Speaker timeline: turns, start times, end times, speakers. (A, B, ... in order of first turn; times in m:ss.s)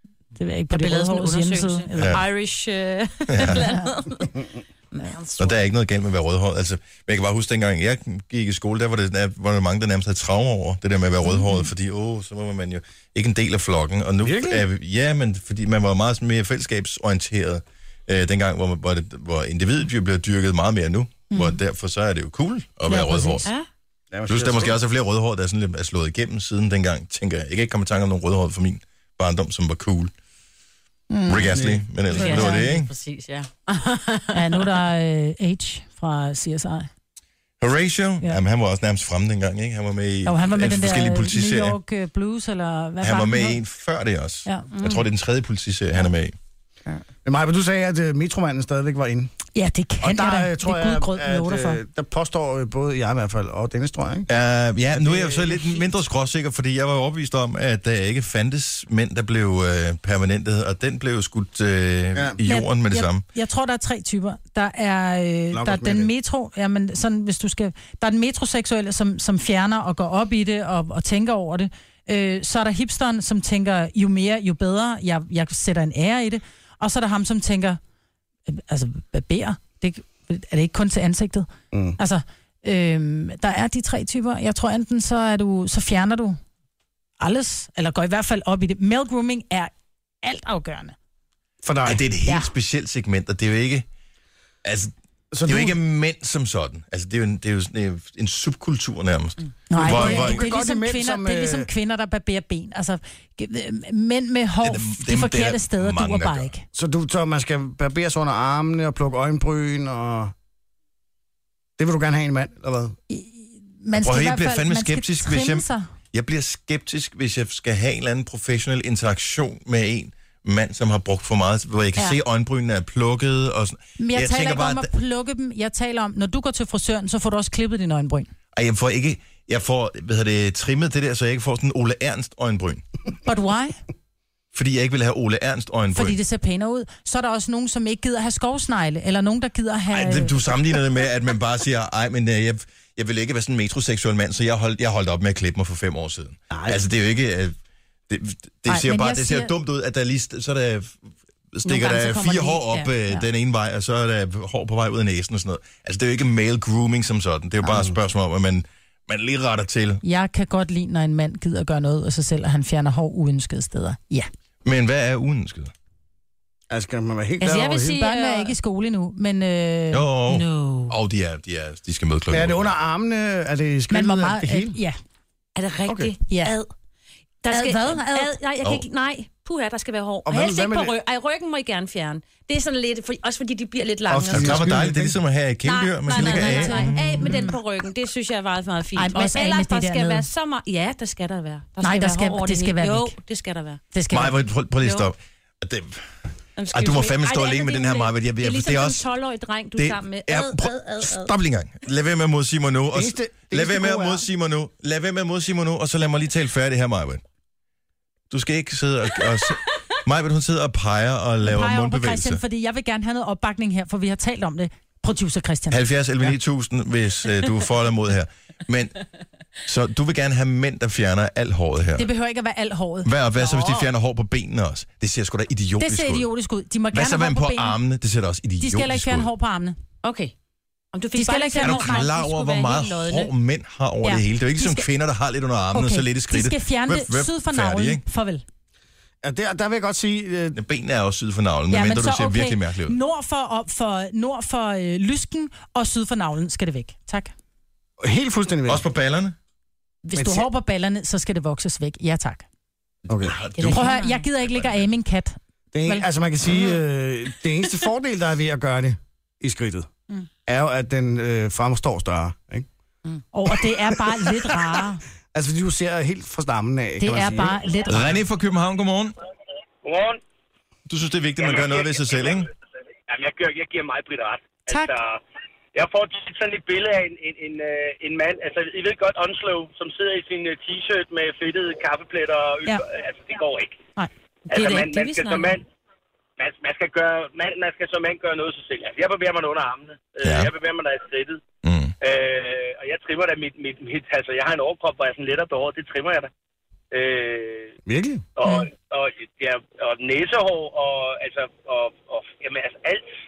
0:00.4-0:02.2 A
0:00.7-0:05.6 B
0:02.0-0:02.2 C
0:03.3-0:03.7 C
0:03.6-0:03.9 A
0:05.4-0:23.5 C
0:14.2-0:14.6 D
0:21.3-0:21.6 A
0:22.9-0:23.5 A
0:24.1-0:24.8 D
0:24.3-0:30.1 C
0:31.1-0:31.6 A
0:31.3-0:32.9 C
0:31.4-0:31.8 D
0:32.1-0:32.7 A
0:32.1-0:34.7 B
0:34.3-0:36.9 A
0:37.6-0:41.8 C
0:40.2-0:43.6 A
0:43.0-0:46.4 C
0:44.8-0:45.0 B
0:47.2-0:49.3 D
0:49.6-0:51.8 A
0:50.0-0:54.3 D
0:54.3-1:03.2 C
0:54.9-0:55.8 D
1:02.4-1:17.8 A
1:05.5-1:06.1 D
1:18.5-1:26.4 A
1:27.2-1:29.7 A
1:30.2-1:31.0 A
1:31.6-1:32.0 D
1:31.8-1:33.9 C
1:34.6-1:34.9 C
1:35.3-1:35.8 D
1:35.4-1:40.5 C
1:39.7-1:46.6 A
1:39.8-1:41.7 D
1:44.6-1:46.5 C
1:46.7-1:50.3 D
1:51.8-1:53.0 D
1:53.1-1:55.9 A
1:54.0-2:04.9 C
2:04.0-2:08.3 A
2:08.5-2:12.8 C
2:13.2-2:13.8 A
2:14.5-2:16.2 C
2:15.9-2:20.3 A
2:19.9-2:27.6 C
2:26.5-2:26.8 D
2:28.1-2:31.0 C
2:28.7-2:29.5 A
2:31.5-2:40.0 C
2:31.7-2:32.9 B
2:32.5-2:33.2 A
2:37.6-2:38.0 D
2:40.0-2:44.3 A
2:44.6-2:45.7 C
2:46.7-2:48.0 D
2:47.4-2:48.5 B
2:47.9-2:50.0 A
2:49.9-2:52.7 C
2:50.3-2:51.0 B
2:52.3-2:54.8 D
2:53.9-2:55.0 A
2:55.6-2:56.7 B
2:55.9-2:56.1 D
2:56.3-2:56.6 A
2:57.4-3:04.7 B
2:57.5-2:58.4 A
3:00.3-3:01.0 D
3:04.1-3:05.2 D
3:04.3-3:07.3 C
3:05.6-3:13.8 B
3:06.1-3:07.6 A
3:09.0-3:10.2 A
3:11.8-3:13.2 A
3:13.9-3:14.4 A
3:14.1-3:16.1 C
3:16.6-3:21.3 B
3:16.7-3:19.0 C
3:19.8-3:27.2 C
3:22.9-3:24.2 D
3:28.3-3:32.4 C
3:31.4-3:35.8 A
3:35.7-3:39.0 C
3:39.6-3:42.1 C
3:42.0-3:43.1 A
3:43.0-3:46.3 C
3:43.4-3:43.9 B
3:45.8-3:47.8 A
3:46.9-3:49.3 C
3:48.6-3:49.8 A
3:50.0-3:50.3 B
3:50.9-3:53.3 B
3:51.2-3:52.1 A
3:51.6-3:58.0 C
3:54.0-3:54.9 A
3:55.7-3:58.4 A
3:59.2-4:00.6 D
4:00.6-4:03.0 C
4:01.7-4:07.3 A
4:08.0-4:08.8 D
4:08.7-4:09.4 C
4:10.0-4:12.4 A
4:10.2-4:10.5 D
4:13.1-4:13.4 D
4:13.1-4:14.9 C
4:13.4-4:14.2 B
4:13.7-4:16.1 A
4:15.7-4:19.9 D
4:20.5-4:22.7 D
4:23.3-4:25.0 A
4:25.3-4:27.6 D
4:27.0-4:28.2 A
4:27.9-4:29.2 C
4:29.8-4:30.2 E
4:30.9-4:32.5 C
4:31.4-4:32.4 E
4:33.1-4:35.2 E
4:35.7-4:43.8 E
4:44.5-4:45.6 E
4:44.5-4:45.6 B
4:46.4-4:51.4 E
4:50.2-4:50.5 C
4:51.6-4:51.9 C
4:52.0-4:56.3 E
4:56.9-4:57.8 E
4:57.8-4:58.3 D
4:58.4-5:03.1 E